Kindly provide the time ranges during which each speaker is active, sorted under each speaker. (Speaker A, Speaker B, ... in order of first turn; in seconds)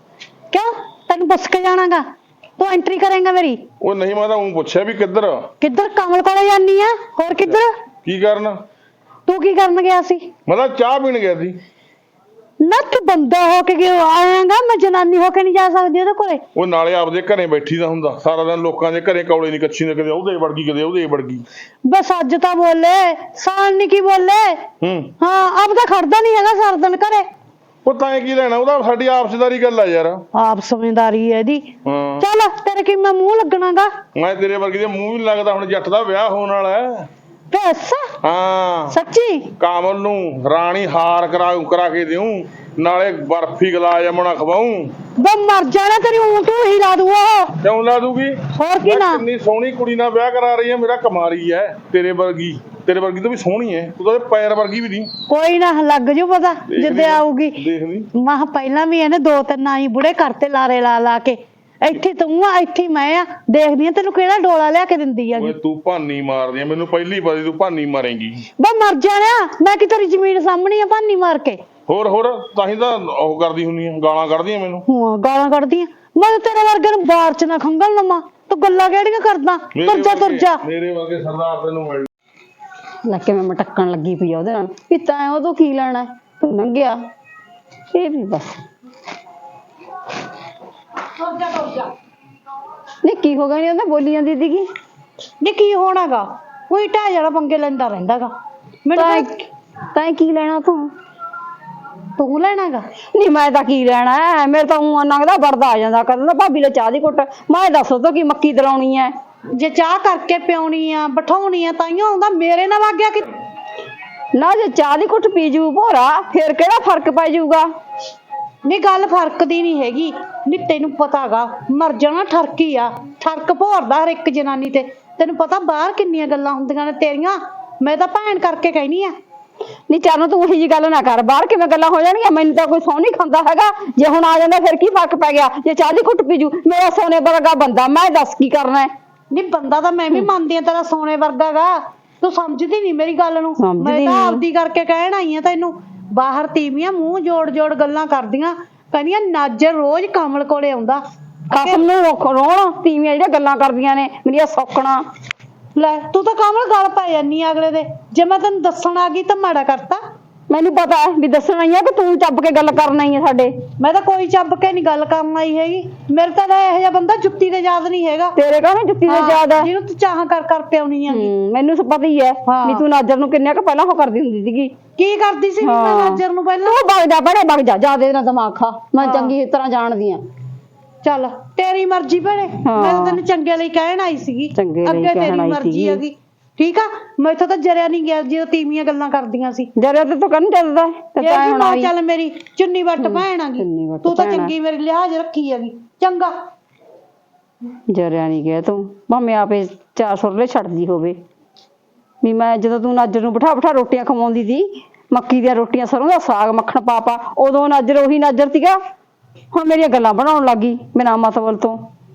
Speaker A: 0.5-2.0, 2.6-3.6, 5.6-7.7, 9.3-10.3, 12.6-16.4, 21.9-24.6, 25.2-27.2, 30.3-31.7, 32.2-33.9, 37.5-38.1, 38.9-39.5, 45.2-47.5, 48.5-49.2, 55.3-57.6, 58.1-65.5, 68.6-71.6, 74.9-80.6, 91.2-91.9, 95.4-98.3, 98.8-99.4, 102.2-102.8, 109.5-113.2, 118.7-129.1, 139.3-151.0, 155.8-160.0, 163.8-168.3, 169.1-171.3, 172.5-172.8, 175.0-176.8, 179.0-179.3, 181.0-189.7, 191.2-196.3
Speaker B: 3.8-5.5, 7.4-8.6, 10.4-11.6, 16.6-21.4, 24.8-25.1, 27.8-30.2, 31.8-32.2, 34.1-37.1, 38.2-39.0, 39.5-44.9, 47.6-55.1, 56.7-58.1, 65.3-68.4, 71.9-74.8, 79.7-82.1
Speaker C: 83.0-87.0, 87.9-88.6, 93.0-94.7, 98.9-99.3, 99.9-100.9, 103.1-109.1, 114.3-117.7, 129.9-138.9, 143.6-144.4, 151.5-155.0, 160.5-163.5, 168.4-169.7, 171.1-174.7, 175.6-180.2, 182.6-183.2, 184.5-186.0, 189.8-191.9, 193.0-194.5, 197.9-201.2, 202.2-208.8, 209.5-211.8